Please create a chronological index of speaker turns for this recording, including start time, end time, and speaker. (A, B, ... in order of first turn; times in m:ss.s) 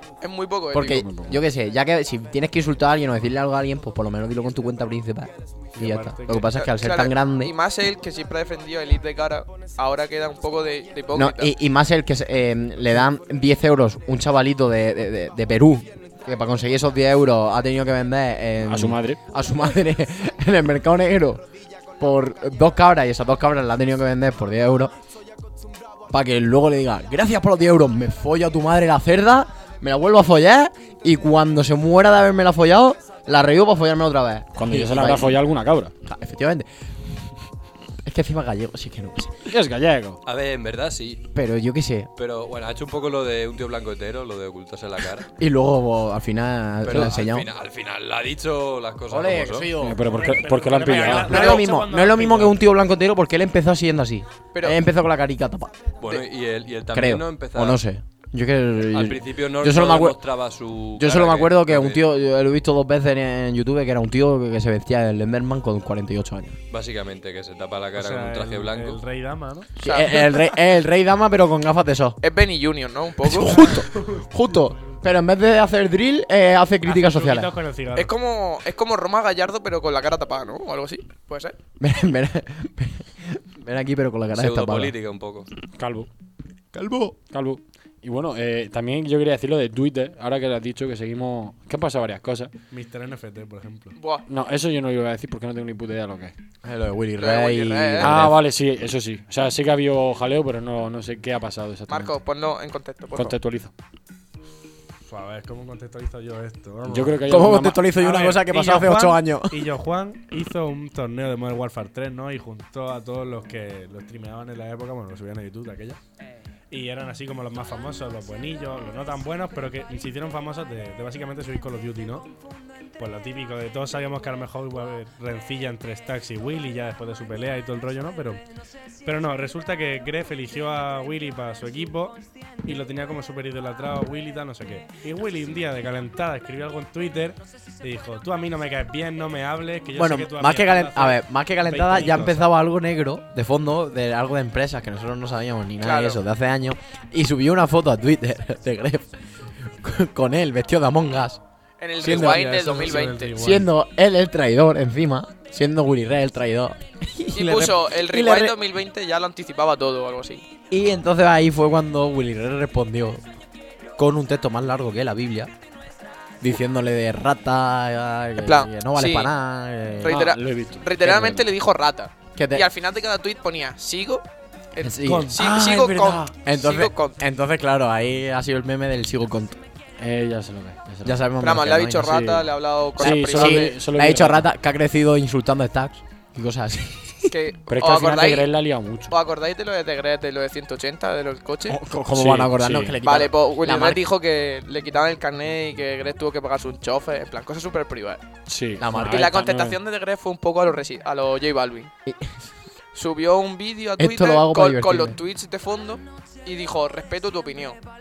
0:00.2-0:01.0 A
0:00.7-0:07.5 B
0:00.9-0:01.4 C
0:05.8-0:06.5 D
0:06.5-0:11.5 A
0:11.1-0:21.4 B
0:18.6-0:19.2 C
0:22.0-0:24.9 B
0:26.1-0:35.4 B
0:34.6-0:35.9 C
0:36.0-0:36.7 B
0:38.0-0:39.5 B
0:39.5-0:40.2 C
0:40.2-0:41.3 E
0:41.3-0:42.1 B
0:42.2-0:45.3 E
0:45.4-0:47.5 B
0:46.8-0:49.7 E
0:49.1-0:50.0 B
0:49.8-0:51.4 C
0:50.0-0:52.6 D
0:51.0-0:55.8 B
0:51.2-0:51.7 A
0:56.0-0:57.8 E
0:56.9-1:00.2 B
0:58.9-1:02.1 E
1:01.0-1:06.6 B
1:06.7-1:09.0 E
1:08.0-1:09.7 D
1:09.8-1:12.2 B
1:09.8-1:10.5 A
1:12.2-1:13.8 A
1:13.2-1:17.6 B
1:13.5-1:14.3 D
1:16.8-1:18.1 D
1:17.9-1:21.6 A
1:21.8-1:24.9 B
1:24.3-1:25.5 E
1:25.8-1:26.1 C
1:26.7-1:27.2 B
1:27.3-1:32.5 C
1:32.7-1:33.9 D
1:34.0-1:34.3 A
1:34.3-1:36.3 C
1:36.6-1:38.4 B
1:37.2-1:38.2 A
1:38.0-1:42.1 C
1:41.9-1:43.4 A
1:43.2-1:43.7 C
1:45.0-1:56.0 D
1:46.9-1:47.9 C
1:47.3-1:49.8 B
1:56.7-2:02.3 D
2:03.0-2:08.4 D
2:09.0-2:22.5 D
2:20.0-2:31.4 B
2:25.8-2:26.2 A
2:31.8-2:33.4 A
2:32.0-2:38.6 B
2:32.0-2:33.7 D
2:37.3-2:40.4 A
2:40.7-2:43.2 B
2:44.0-2:45.5 B
2:46.4-2:50.2 B
2:48.4-2:49.3 A
2:50.0-2:57.2 A
2:50.1-2:51.4 C
2:52.4-2:52.7 B
2:54.8-2:55.4 B
2:55.0-2:55.4 D
2:55.4-2:56.3 C
2:56.4-2:59.6 B
3:00.0-3:01.3 C
3:01.0-3:02.3 B
3:01.4-3:03.8 A
3:02.1-3:02.5 C
3:03.0-3:04.5 C
3:03.0-3:07.4 B
3:07.3-3:08.5 A
3:07.7-3:09.1 C
3:09.1-3:11.8 A
3:11.7-3:14.0 B
3:12.1-3:13.0 C
3:13.0-3:18.2 A
3:18.5-3:19.8 C
3:18.8-3:19.3 B
3:18.9-3:21.9 A
3:22.1-3:22.5 B
3:23.0-3:27.8 A
3:24.0-3:25.2 B